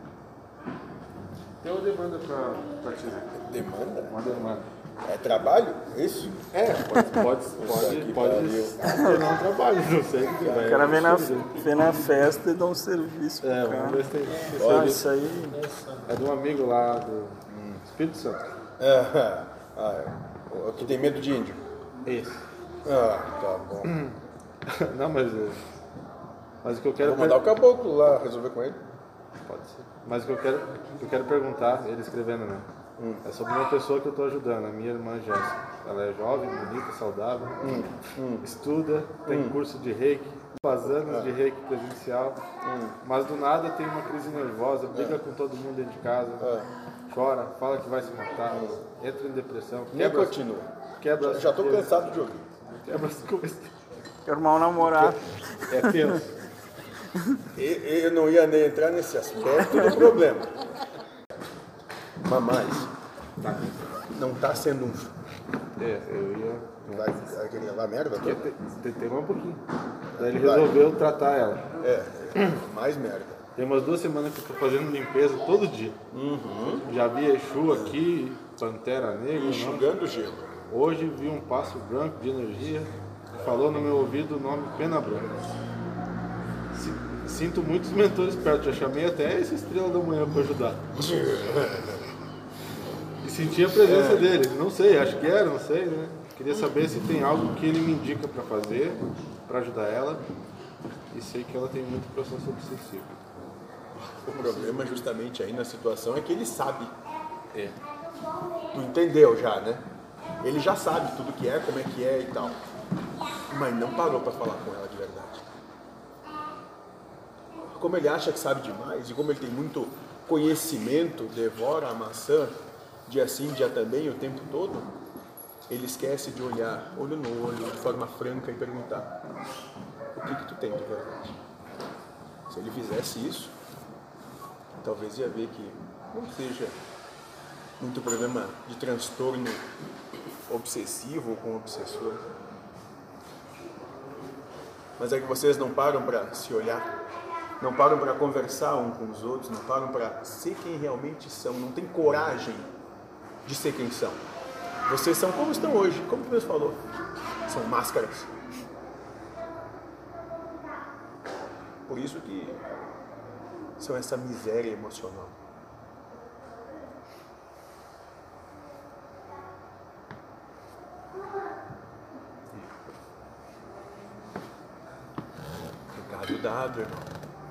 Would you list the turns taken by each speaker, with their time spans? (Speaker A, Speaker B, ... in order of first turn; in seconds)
Speaker A: 1.6-3.4, 4.0-4.7, 6.5-11.6, 13.4-15.1, 16.1-18.6, 20.8-21.2, 22.1-22.4, 23.9-24.1, 24.7-25.6, 26.6-27.5, 29.4-32.7, 33.2-37.7, 38.4-42.4, 43.0-46.5, 47.1-50.4, 51.0-53.7, 55.7-56.3, 63.4-63.8, 65.8-67.2, 68.2-69.6, 70.2-71.7, 73.5-76.0, 76.8-79.9, 80.7-85.3, 86.7-90.8, 93.2-100.2, 101.1-103.2, 104.3-105.0
Speaker B: 3.4-4.3, 5.0-6.4, 7.6-8.8, 10.4-10.9, 14.6-15.0, 17.5-17.8, 18.8-21.6, 22.8-23.9, 27.0-28.8, 33.0-33.3, 37.6-38.5, 39.2-39.6, 40.7-41.4, 42.6-43.0, 44.9-45.2, 46.4-46.7, 48.5-48.8, 49.9-52.5, 57.5-60.5, 62.2-62.9, 64.1-65.1, 66.9-68.5, 70.1-70.8, 71.8-73.4, 76.1-76.9, 77.7-78.0, 79.3-80.5, 90.9-92.1, 93.8-94.4, 104.2-106.9, 108.7-109.9, 110.4-112.6, 113.5-115.5, 117.7-124.9, 125.7-129.2, 130.1-131.4, 132.5-133.5, 134.8-136.8, 137.8-139.7, 140.5-142.3, 145.0-146.9, 147.6-152.7, 153.4-154.2, 154.9-156.8, 157.4-158.3, 161.9-162.6, 163.8-165.4, 175.9-177.1
Speaker C: 8.8-9.2, 10.5-15.7, 54.3-56.2